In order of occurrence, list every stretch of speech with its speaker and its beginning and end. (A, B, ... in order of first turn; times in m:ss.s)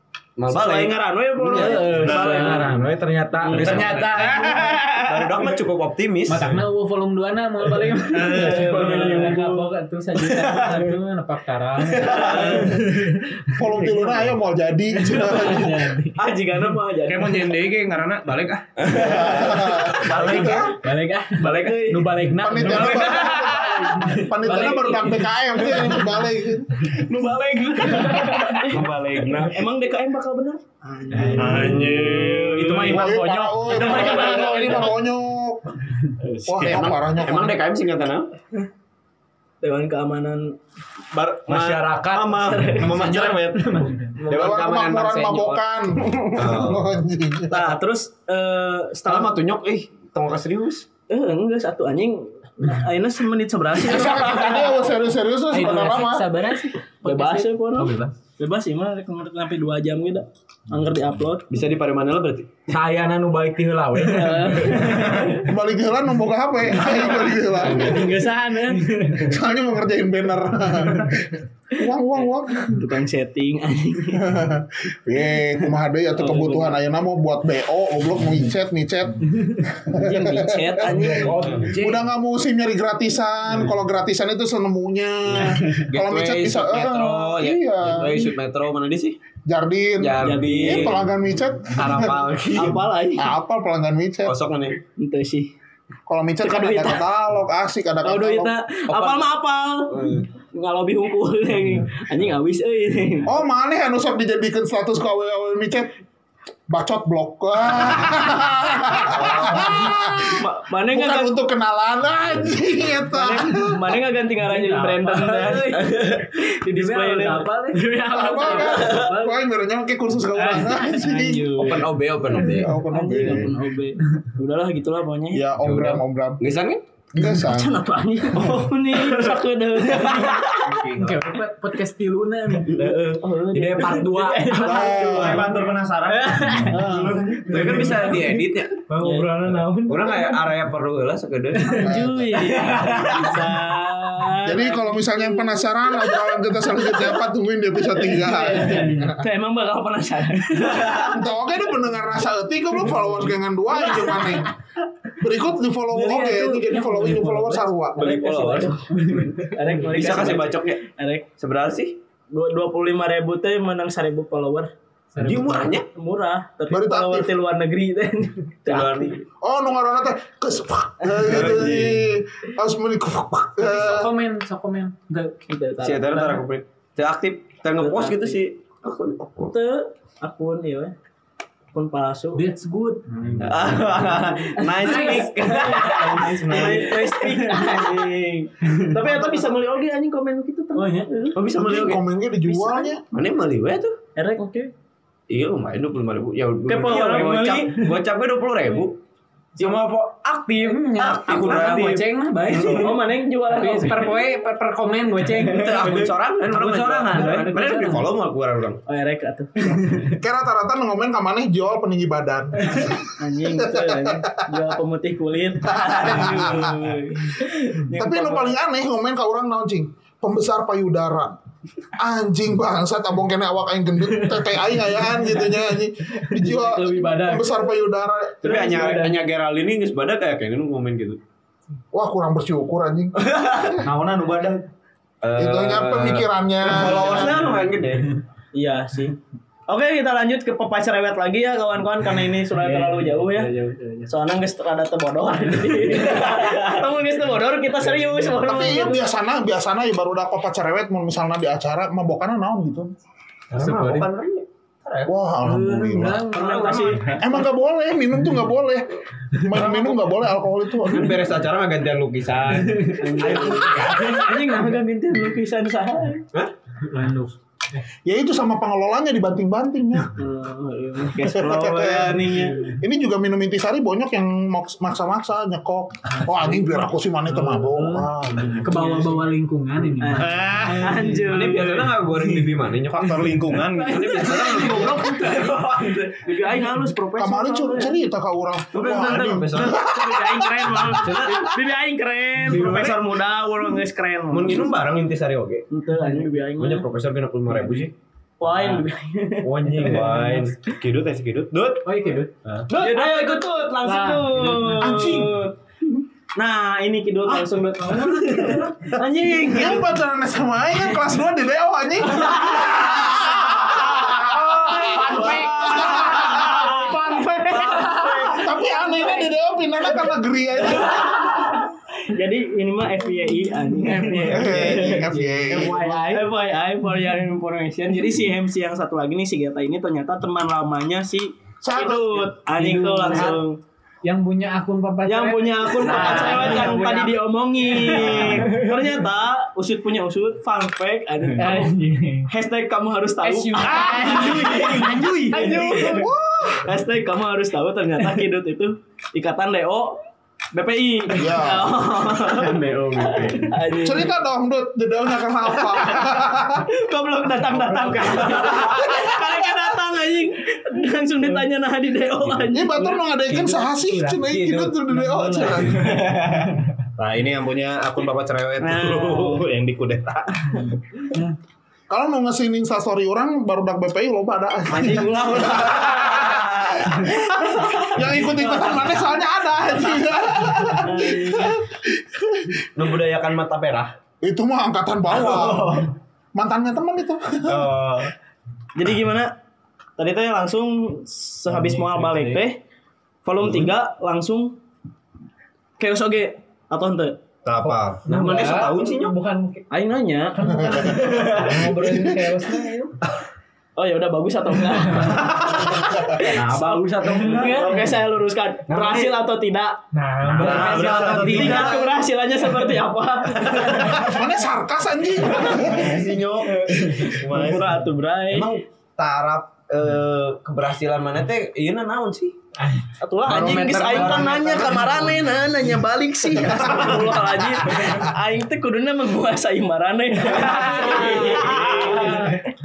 0:00.4-0:02.6 A
0:00.5-0:02.7 B
0:01.5-0:04.1 C
0:01.8-0:02.7 D
0:03.4-0:03.9 B
0:03.5-0:04.1 A
0:03.5-0:04.9 D
0:03.6-0:04.8 E
0:04.6-0:05.4 B
0:04.9-0:06.5 A
0:06.3-0:14.0 E
0:08.1-0:09.1 D
0:08.3-0:09.7 B
0:10.3-0:10.7 A
0:11.8-0:12.8 A
0:12.3-0:12.6 B
0:13.6-0:15.9 F
0:15.1-0:16.2 E
0:16.2-0:17.6 B
0:17.0-0:18.7 D
0:18.8-0:20.8 A
0:19.1-0:20.6 F
0:19.1-0:20.6 B
0:20.1-0:20.7 C
0:20.8-0:21.7 E
0:21.4-0:26.0 B
0:21.8-0:23.3 C
0:22.4-0:26.9 F
0:24.5-0:25.1 E
0:26.8-0:28.9 B
0:27.9-0:28.5 E
0:28.7-0:29.6 A
0:29.4-0:31.9 B
0:31.2-0:31.6 E
0:31.4-0:33.0 D
0:31.4-0:32.6 A
0:32.6-0:33.6 C
0:32.8-0:33.1 B
0:32.8-0:35.8 F
0:33.1-0:33.8 E
0:33.6-0:35.0 B
0:36.2-0:36.8 C
0:36.4-0:37.6 F
0:36.6-0:38.3 A
0:39.6-0:40.6 B
0:41.1-0:45.6 A
0:41.5-0:43.4 C
0:42.5-0:43.0 B
0:43.1-0:44.2 E
0:44.2-0:45.4 C
0:44.3-0:47.8 F
0:46.4-0:46.8 A
0:47.5-0:49.3 B
0:49.1-0:50.9 A
0:51.1-0:54.8 B
0:53.8-0:56.3 F
0:55.5-0:58.1 E
0:57.0-1:01.5 B
1:01.5-1:02.5 A
1:02.7-1:05.0 C
1:04.1-1:05.5 B
1:05.4-1:08.1 F
1:07.7-1:09.2 E
1:09.3-1:12.8 F
1:12.7-1:14.3 B
1:14.1-1:28.3 F
1:16.2-1:16.8 B
1:19.9-1:21.5 B
1:21.2-1:22.0 C
1:21.4-1:21.7 A
1:25.3-1:29.2 A
1:29.5-1:32.2 F
1:30.0-1:31.1 A
1:30.2-1:31.0 B
1:31.7-1:32.8 A
1:32.0-1:32.5 C
1:32.6-1:33.3 B
1:33.2-1:34.4 F
1:34.3-1:34.8 A
1:35.0-1:35.5 B
1:36.1-1:38.5 F
1:36.4-1:37.0 B
1:38.0-1:43.3 B
1:38.9-1:39.3 A
1:39.9-1:40.3 A
1:43.2-1:45.9 F
1:46.7-1:54.0 F
1:49.1-1:49.9 A
1:49.6-1:51.3 B
1:53.1-1:59.1 B
1:54.4-1:56.2 E
1:56.7-1:59.4 E
1:58.1-2:01.7 F
2:00.4-2:01.9 B
2:01.6-2:02.7 A
2:02.4-2:03.6 F
2:02.9-2:05.5 B
2:05.3-2:06.4 F
2:05.6-2:06.8 A
2:07.1-2:07.8 F
2:07.2-2:10.6 B
2:10.7-2:11.3 D
2:11.0-2:12.9 E
2:12.8-2:15.4 C
2:12.8-2:15.4 B
2:14.6-2:15.5 F
2:15.0-2:17.4 D
2:16.1-2:18.4 B
2:16.4-2:16.7 E
2:16.7-2:18.1 C
2:17.5-2:18.8 A
2:18.9-2:20.3 C
2:19.0-2:19.3 B
2:19.9-2:23.4 A
2:21.7-2:26.3 B
2:21.8-2:22.3 F
2:24.4-2:29.1 F
2:28.0-2:31.2 B
2:28.4-2:29.1 E
2:30.7-2:31.0 A
2:30.9-2:34.5 F
2:33.8-2:34.4 B
2:35.2-2:38.0 F
2:35.9-2:41.2 B
2:38.0-2:40.8 A
2:38.9-2:39.5 E
2:41.4-2:42.0 A
2:42.3-2:44.7 B
2:45.1-2:45.8 E
2:45.2-2:45.9 A
2:45.9-2:49.2 B
2:46.7-2:47.3 F
2:48.7-2:49.2 A
2:49.4-2:54.1 F
2:51.2-2:52.0 A
2:53.6-2:55.4 E
2:55.5-2:56.4 B
2:55.8-2:59.5 A
2:57.8-2:58.4 B
2:59.4-3:00.9 B
3:01.7-3:02.4 B
3:02.3-3:04.1 E
3:03.4-3:07.7 A
3:04.7-3:11.4 B
3:04.8-3:07.5 E
3:06.2-3:06.8 C
3:08.7-3:09.4 E
3:10.8-3:11.1 E
3:11.4-3:12.0 A
3:11.5-3:13.0 F
3:12.5-3:12.8 B
3:13.1-3:14.0 A
3:14.2-3:14.7 B
3:15.3-3:19.0 A
3:16.7-3:18.0 B
3:17.0-3:17.6 C
3:19.6-3:19.8 E
3:19.6-3:21.8 C
3:20.6-3:23.0 E
3:21.0-3:22.9 A
3:22.8-3:24.2 B
3:23.5-3:26.1 E
3:25.5-3:28.8 A
3:25.7-3:27.7 C
3:27.1-3:28.0 E
3:28.9-3:30.1 B
3:30.2-3:34.3 F
3:33.0-3:38.1 B
3:35.6-3:36.7 F
3:37.9-3:38.6 A
3:37.9-3:41.4 F
3:42.0-3:48.9 F
3:46.4-3:47.5 E
3:48.4-3:51.2 A
3:48.5-3:49.1 E
3:51.9-3:53.2 F
3:53.2-3:53.8 A
3:55.2-3:58.1 A
3:55.4-3:57.4 F
3:57.1-3:57.4 B
3:58.5-3:59.2 B
3:59.7-4:03.5 B
4:02.6-4:04.1 E
4:04.1-4:09.0 B
4:05.8-4:06.8 A
4:08.4-4:12.9 F
4:13.5-4:15.1 A
4:13.6-4:14.1 E
4:15.1-4:16.2 F
4:15.4-4:17.2 E
4:16.3-4:17.2 B
4:16.4-4:16.9 A
4:17.2-4:21.2 F
4:19.5-4:20.0 A
4:20.8-4:24.3 A
4:22.9-4:24.6 E
4:23.0-4:26.2 B
4:26.9-4:27.8 E
4:28.0-4:30.1 F
4:30.2-4:32.6 B
4:31.2-4:38.9 F
4:31.8-4:32.6 A
4:37.3-4:41.3 E
4:40.0-4:42.0 B
4:40.2-4:41.1 D
4:41.2-4:43.3 A
4:42.9-4:44.3 D
4:43.8-4:45.6 E
4:43.9-4:46.2 A
4:44.4-4:45.5 C
4:46.2-4:48.0 B
4:47.2-4:50.9 F
4:48.7-4:51.6 A
4:49.0-4:54.7 B
4:52.4-4:53.2 A
4:54.3-4:55.7 A
4:55.7-4:56.9 B
4:56.6-4:57.9 A
4:58.4-5:00.2 B
4:59.4-5:01.7 A
4:59.8-5:00.4 E
5:01.2-5:01.8 D
5:01.8-5:02.3 E
5:02.7-5:09.9 B
5:02.8-5:03.4 A
5:03.8-5:05.0 E
5:04.8-5:05.4 F
5:08.1-5:08.6 E
5:09.4-5:16.7 F
5:12.3-5:12.7 B
5:14.3-5:19.3 E
5:14.7-5:18.4 B
5:17.6-5:18.0 A
5:18.3-5:21.3 F
5:20.8-5:21.5 B
5:22.1-5:25.1 B
5:23.8-5:26.2 E
5:24.3-5:25.9 F
5:25.9-5:33.6 B
5:31.6-5:32.3 F
5:32.6-5:33.4 A
5:34.0-5:37.2 E
5:35.0-5:41.7 B
5:35.9-5:36.6 C
5:38.0-5:38.4 A
5:38.1-5:38.7 E
5:41.4-5:42.3 E
5:42.3-5:46.1 B
5:43.2-5:45.8 E
5:45.4-5:45.8 C
5:45.8-5:46.7 F
5:46.6-5:50.0 B
5:50.5-5:54.1 B
5:51.1-5:51.8 F
5:51.7-5:53.6 A
5:53.8-5:56.7 F
5:55.6-5:56.1 B
5:56.8-6:03.0 B
5:58.7-5:59.1 F
6:02.5-6:06.0 F
6:03.3-6:04.2 E
6:04.2-6:06.4 A
6:04.9-6:05.8 E
6:07.0-6:10.6 D
6:08.6-6:09.4 B
6:11.9-6:22.5 F
6:14.7-6:17.1 B
6:20.8-6:21.6 B
6:22.8-6:23.9 A
6:24.2-6:27.7 F
6:27.5-6:28.1 A
6:28.8-6:29.3 B
6:30.0-6:32.6 B
6:31.7-6:32.4 E
6:33.3-6:34.6 B
6:35.8-6:37.2 B
6:37.5-6:39.2 A
6:37.5-6:37.8 D
6:38.1-6:39.4 E
6:38.3-6:38.8 C
6:39.7-6:41.5 B
6:40.4-6:42.3 F
6:40.5-6:42.9 E
6:43.8-6:49.8 B
6:46.3-6:47.8 C
6:47.2-6:47.8 E
6:48.7-6:49.1 A
6:49.9-6:51.8 C
6:50.3-6:51.7 D
6:50.5-6:51.8 A
6:51.1-6:54.0 B
6:53.9-6:56.0 F
6:55.5-6:57.6 A
6:57.2-6:57.7 D
6:57.2-6:58.5 B
6:58.3-7:02.4 A
7:03.0-7:12.4 B
7:03.3-7:05.2 A
7:03.3-7:05.2 C
7:10.5-7:11.0 E
7:11.6-7:12.0 A